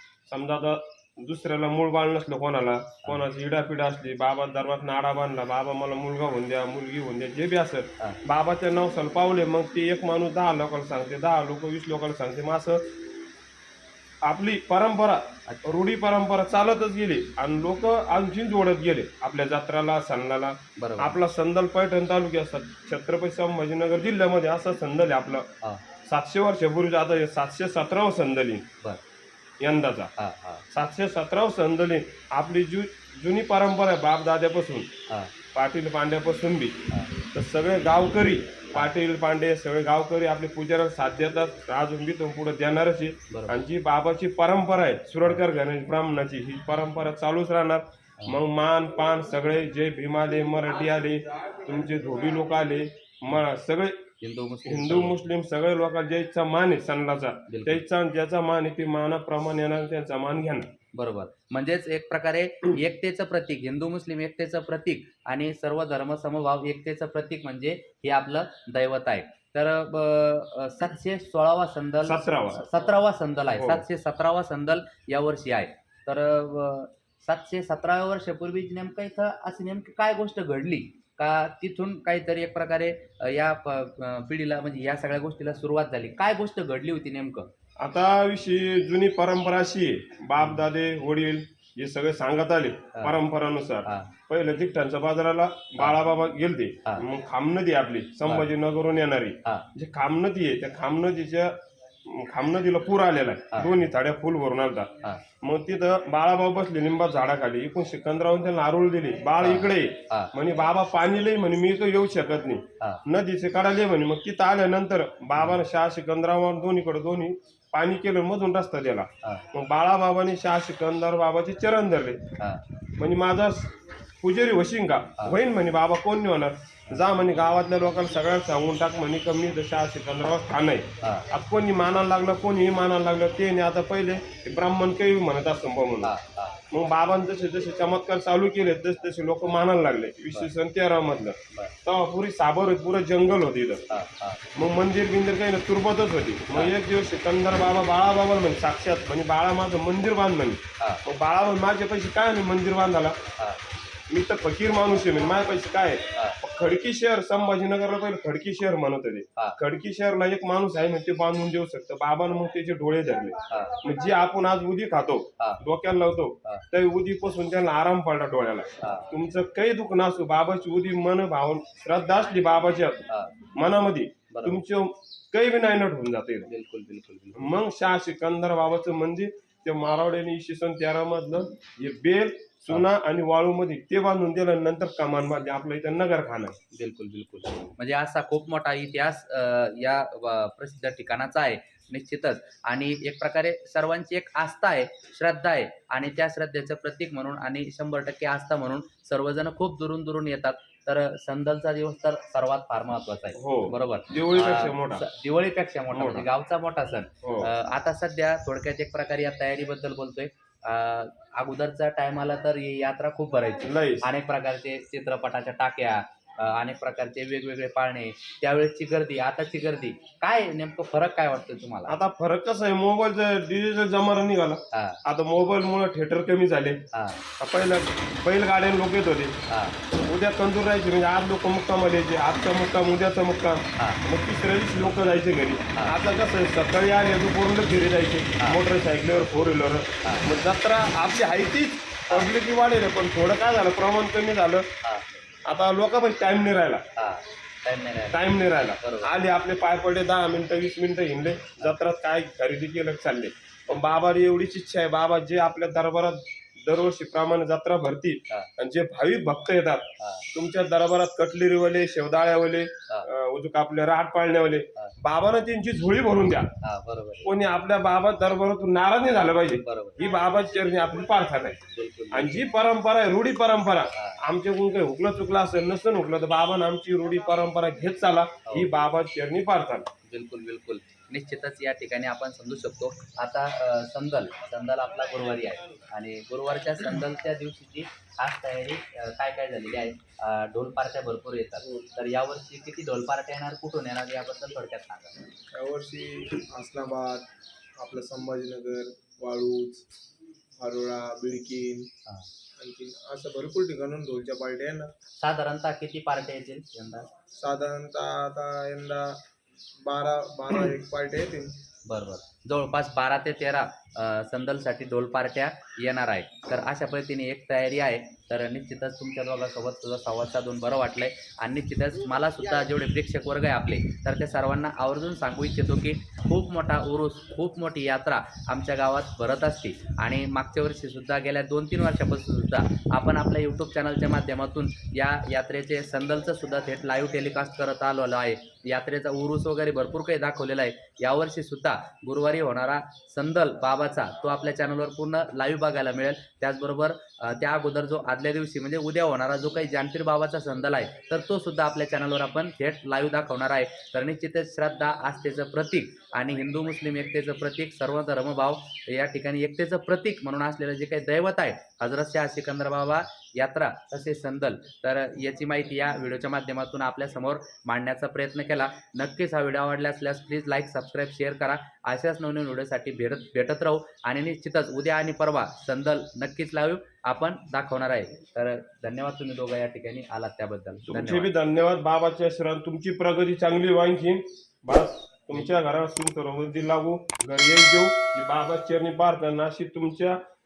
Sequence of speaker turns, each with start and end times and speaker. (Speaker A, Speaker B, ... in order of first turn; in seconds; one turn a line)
Speaker A: 0.3-12.9
Speaker A: 14.2-28.7
Speaker B: 20.8-21.2
Speaker A: 29.6-30.1
Speaker B: 30.2-30.7
Speaker A: 30.7-34.9
Speaker B: 35.1-35.3
Speaker A: 35.5-54.0
Speaker B: 43.3-43.5
Speaker B: 54.2-55.2
Speaker A: 54.6-60.7
Speaker B: 57.5-57.8
Speaker B: 60.9-87.5
Speaker A: 72.0-72.7
Speaker A: 73.5-73.8
Speaker A: 87.8-122.3
Speaker B: 90.4-90.7
Speaker B: 93.8-94.1
Speaker B: 109.4-110.3
Speaker B: 122.4-122.6
Speaker A: 123.0-136.1
Speaker B: 131.0-131.3
Speaker B: 136.0-136.6
Speaker A: 136.7-143.9
Speaker B: 143.9-144.4
Speaker A: 144.5-153.2
Speaker B: 146.5-146.8
Speaker B: 153.4-153.6
Speaker A: 154.1-173.0
Speaker B: 156.1-156.4
Speaker B: 163.5-163.8
Speaker B: 168.8-169.1
Speaker B: 173.1-173.4
Speaker A: 173.6-176.5
Speaker B: 174.3-174.6
Speaker B: 176.4-177.6
Speaker A: 177.4-186.6
Speaker B: 186.7-222.0
Speaker A: 203.4-205.1
Speaker A: 205.9-206.3
Speaker A: 207.2-207.5
Speaker A: 213.6-214.1
Speaker A: 221.9-226.9
Speaker B: 224.7-225.0
Speaker B: 226.9-227.2
Speaker A: 227.4-229.4
Speaker B: 229.5-229.8
Speaker A: 230.0-244.7
Speaker B: 233.8-234.0
Speaker B: 242.1-242.3
Speaker B: 244.8-245.1
Speaker A: 245.4-246.9
Speaker B: 246.9-249.1
Speaker A: 248.1-266.6
Speaker B: 253.7-254.0
Speaker B: 260.0-260.3
Speaker B: 266.6-267.3
Speaker A: 267.2-279.9
Speaker B: 269.4-270.1
Speaker B: 271.7-272.5
Speaker B: 273.9-274.2
Speaker B: 280.1-295.1
Speaker C: 295.5-299.9
Speaker C: 300.6-301.9
Speaker C: 302.6-304.9
Speaker B: 305.2-307.1
Speaker C: 307.3-309.2
Speaker C: 309.8-311.6
Speaker B: 311.9-381.3
Speaker A: 380.9-390.2